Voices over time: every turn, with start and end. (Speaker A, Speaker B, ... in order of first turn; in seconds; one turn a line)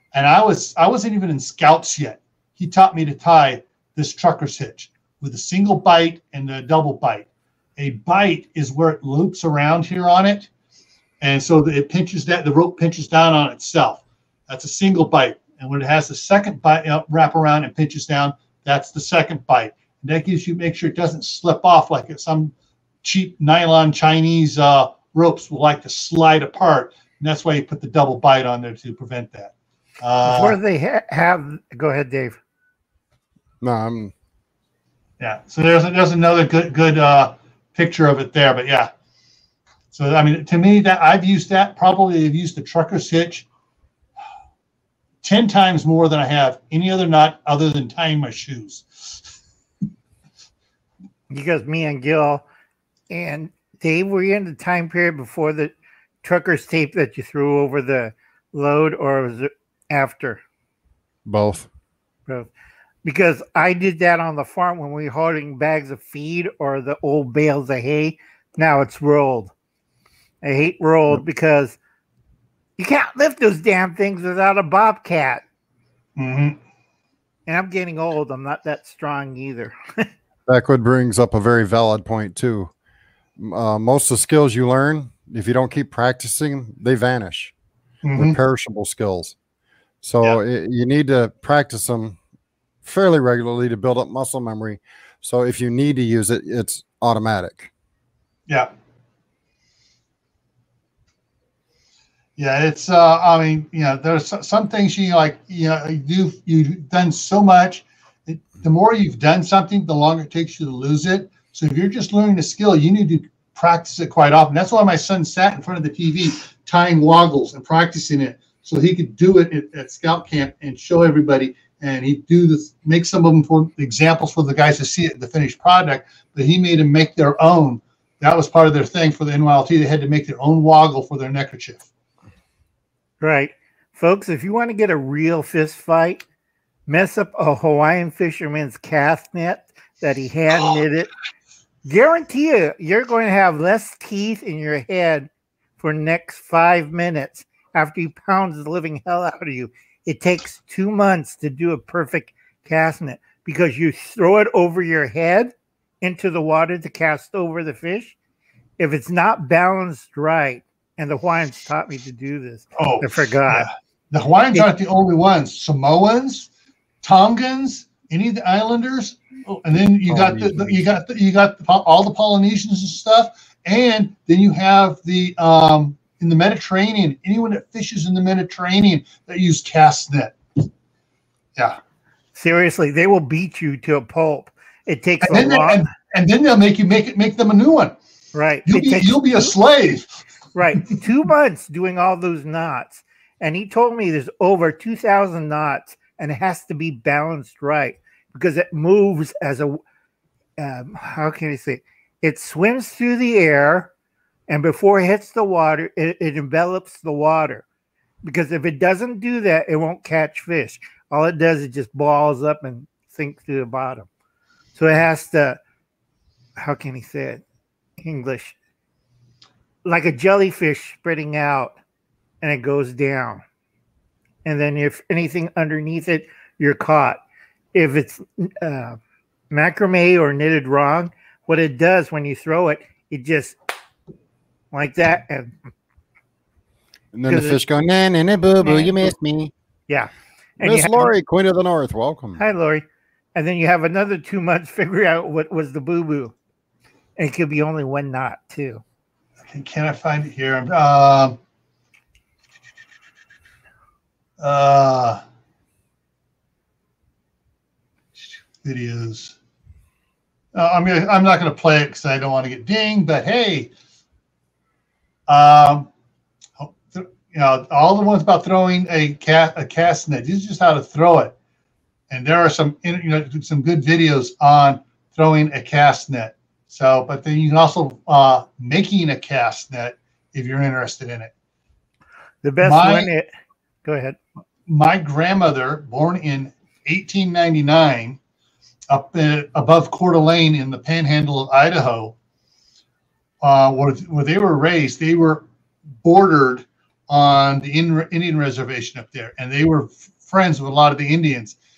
Speaker A: 0.1-10.5
Speaker A: 11.2-30.6
Speaker B: 30.2-32.4
Speaker C: 33.6-34.1
Speaker A: 35.2-38.9
Speaker A: 39.9-43.5
Speaker A: 45.2-49.2
Speaker B: 51.3-52.5
Speaker B: 53.1-60.4
Speaker C: 61.3-61.7
Speaker B: 63.0-69.5
Speaker B: 70.4-71.8
Speaker B: 72.8-75.4
Speaker A: 76.2-76.6
Speaker B: 77.5-80.1
Speaker C: 80.5-82.7
Speaker C: 83.4-87.5
Speaker A: 88.0-88.4
Speaker C: 88.2-89.3
Speaker C: 90.0-92.2
Speaker C: 92.8-97.7
Speaker A: 102.4-131.8
Speaker B: 133.2-136.2
Speaker B: 136.9-141.1
Speaker B: 141.8-158.2
Speaker B: 158.8-163.7
Speaker A: 162.8-166.5
Speaker A: 167.0-180.6
Speaker C: 170.1-170.8
Speaker B: 182.3-185.9
Speaker A: 185.2-187.9
Speaker B: 188.3-189.5
Speaker A: 188.7-190.2
Speaker B: 190.6-199.8
Speaker B: 200.6-203.9
Speaker B: 204.5-207.7
Speaker B: 208.2-214.1
Speaker B: 214.8-215.6
Speaker B: 216.6-217.4
Speaker B: 218.0-218.6
Speaker B: 219.8-221.8
Speaker B: 222.4-223.4
Speaker B: 224.4-227.2
Speaker B: 227.7-229.0
Speaker B: 229.5-233.6
Speaker B: 234.7-235.7
Speaker C: 237.1-239.5
Speaker B: 237.3-237.6
Speaker B: 238.6-239.1
Speaker B: 239.9-241.1
Speaker C: 240.6-242.4
Speaker B: 242.4-246.3
Speaker B: 247.2-248.8
Speaker A: 249.5-251.4
Speaker A: 254.4-255.2
Speaker A: 258.6-259.4
Speaker A: 260.6-263.7
Speaker A: 265.3-265.9
Speaker A: 266.6-271.4
Speaker A: 272.1-281.3
Speaker B: 282.4-283.3
Speaker A: 282.6-283.1
Speaker B: 283.9-284.2
Speaker A: 284.7-288.2
Speaker A: 288.9-292.1
Speaker A: 293.4-295.4
Speaker A: 296.0-301.6